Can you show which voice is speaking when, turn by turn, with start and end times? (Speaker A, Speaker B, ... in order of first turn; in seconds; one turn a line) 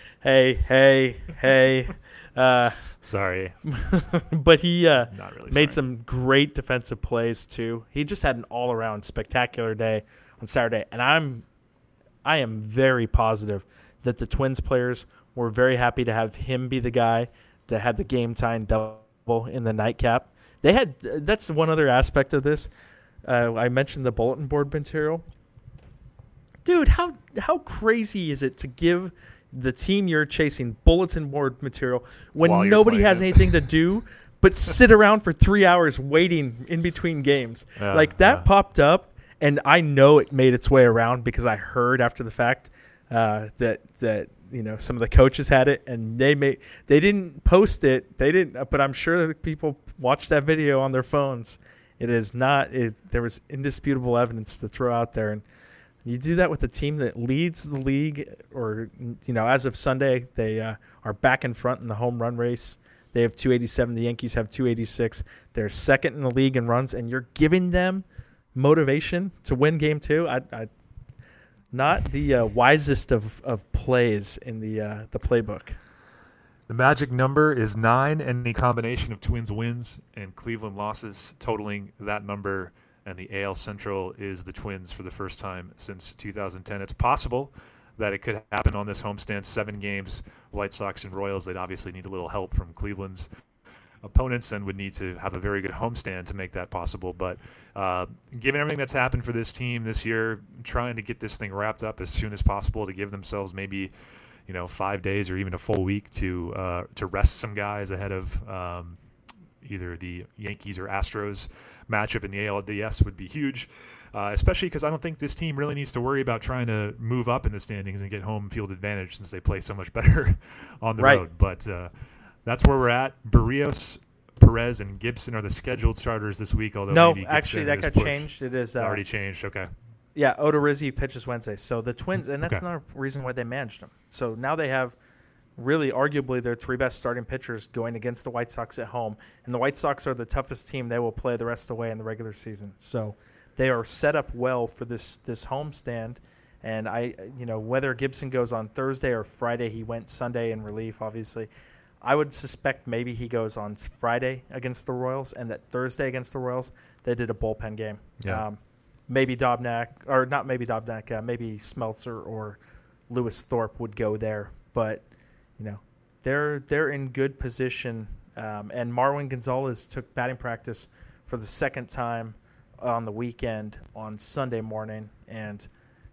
Speaker A: 0.2-2.9
Speaker B: 3.0-3.6
Speaker A: 3.7-11.4
Speaker B: 5.1-5.8
Speaker A: 12.2-22.7
Speaker A: 23.2-25.2
Speaker A: 26.6-55.4
Speaker B: 32.4-33.6
Speaker B: 37.8-38.5
Speaker A: 56.0-70.7
Speaker A: 71.7-75.8
Speaker B: 76.7-93.3
Speaker B: 94.0-103.9
Speaker B: 104.5-109.0
Speaker B: 109.6-121.9
Speaker A: 121.0-121.2
Speaker B: 122.5-129.7
Speaker A: 126.9-129.0
Speaker A: 130.1-134.9
Speaker A: 135.6-151.5
Speaker A: 152.0-162.6
Speaker B: 158.2-158.4
Speaker A: 163.1-165.1
Speaker A: 165.6-175.7